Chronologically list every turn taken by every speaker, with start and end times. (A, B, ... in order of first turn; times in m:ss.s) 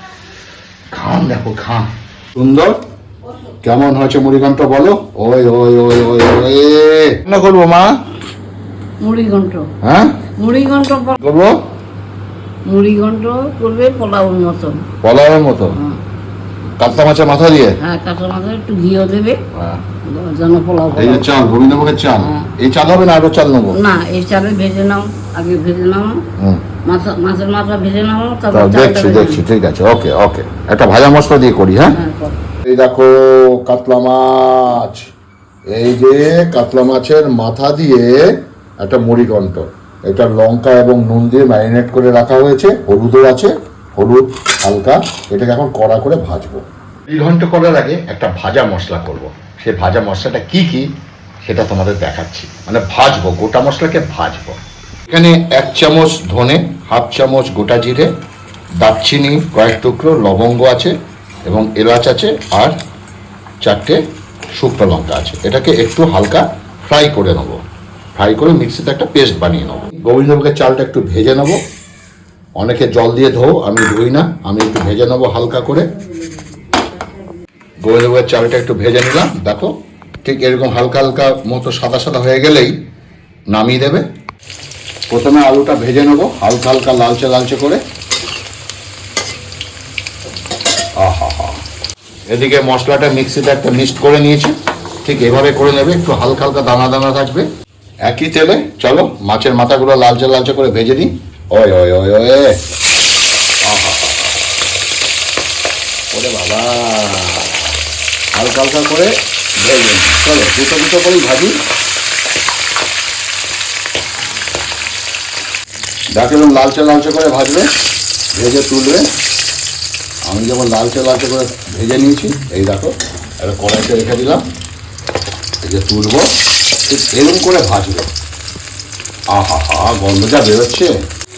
0:00.9-0:02.8 A
0:03.6-0:08.0 A
0:09.0-0:09.7 B
0:09.8-0:10.2 A
0:10.4-0:11.2 B
0:11.2-0:11.6 A
0:12.7-0:14.8 B
0:15.0-0:15.8 A
0:16.8-0:17.8 A
0:17.8-0:19.4 B
0:20.0-0:21.3 B
0:20.9-0:23.8 A
0:22.2-0:22.4 B
0:23.7-0:26.2 B
0:26.4-0:26.6 A
0:26.8-0:29.4 B
0:28.5-0:32.0 A
0:31.9-0:32.4 B
0:32.6-0:35.1 A
0:35.7-0:50.9 A
0:51.4-0:54.6 A
0:55.1-0:58.1 A
0:58.8-1:00.9 A
1:01.4-1:02.7 A
1:03.6-1:04.0 A
1:04.6-1:07.6 A
1:08.2-1:11.6 A
1:12.6-1:15.9 A
1:17.8-1:19.7 A
1:20.2-1:22.7 A
1:23.5-1:24.0 A
1:25.1-1:27.8 A
1:31.0-1:31.6 A
1:32.3-1:37.4 A
1:38.0-1:42.5 A
1:43.6-1:44.3 A
1:46.1-1:47.7 A
1:48.3-1:51.5 A
1:56.2-1:57.7 A
1:58.3-1:59.0 A
2:00.3-2:04.4 A
2:05.6-2:06.2 A
2:06.8-2:08.1 A
2:09.3-2:10.9 A